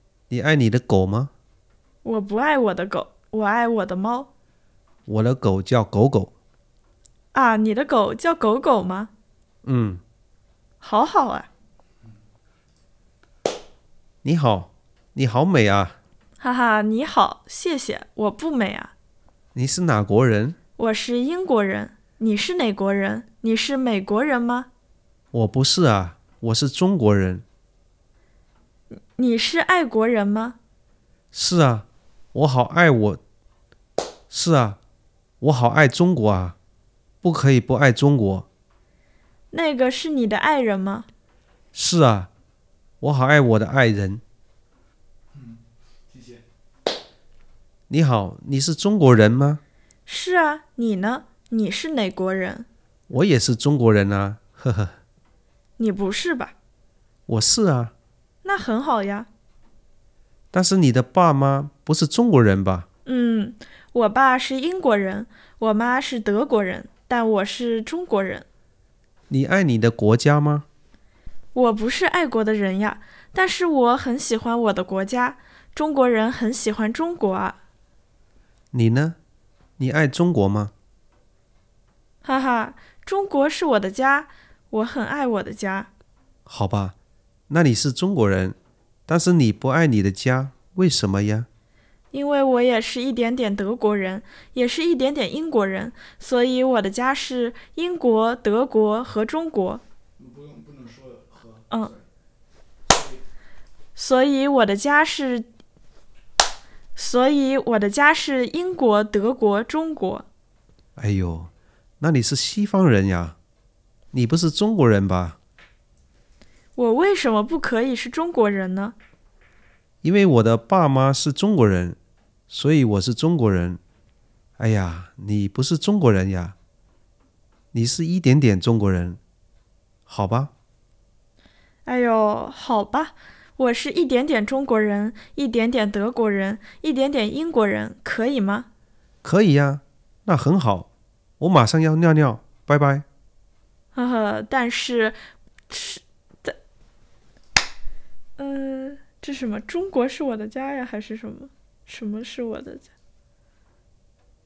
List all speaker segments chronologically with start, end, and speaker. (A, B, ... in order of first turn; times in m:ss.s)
0:00.3-0:01.3 A
0:02.0-0:04.3 B
0:05.1-0:06.3 A
0:07.3-0:09.1 B
0:09.6-0:10.0 A
0:10.8-0:11.5 B
0:14.2-0:16.0 A
0:16.4-0:18.9 B
0:19.6-0:20.6 A
0:20.8-0:24.7 B
0:25.3-0:27.4 A
0:28.9-0:30.6 B
0:31.3-0:33.2 A
0:34.3-0:34.8 A
0:35.4-0:36.6 A
0:37.2-0:38.5 A
0:39.5-0:41.1 B
0:41.7-0:42.3 A
0:43.0-0:44.2 A
0:45.3-0:46.4 C
0:47.9-0:49.6 A
0:50.1-0:52.7 B
0:53.1-0:55.0 A
0:55.8-0:56.6 B
0:57.3-0:57.9 A
0:58.4-0:59.3 B
1:00.5-1:02.9 A
1:03.0-1:08.5 B
1:09.3-1:10.7 A
1:11.5-1:17.6 B
1:18.7-1:19.2 A
1:19.8-1:20.7 A
1:22.2-1:25.9 B
1:26.5-1:27.0 A
1:27.5-1:31.5 A
1:32.1-1:39.8 B
1:40.2-1:42.0 C
1:42.9-1:43.2 C
1:44.0-1:45.5 B
1:47.0-1:50.3 B
1:51.0-1:53.4 A
1:54.1-1:55.4 A
1:56.8-1:59.0 B
2:00.0-2:02.0 A
2:02.5-2:03.8 A
2:04.6-2:06.6 A
2:07.7-2:09.2 A
2:10.1-2:10.5 A
2:11.8-2:18.7 B
2:19.2-2:23.0 A
2:23.9-2:25.2 B
2:25.7-2:26.6 B
2:28.4-2:32.9 B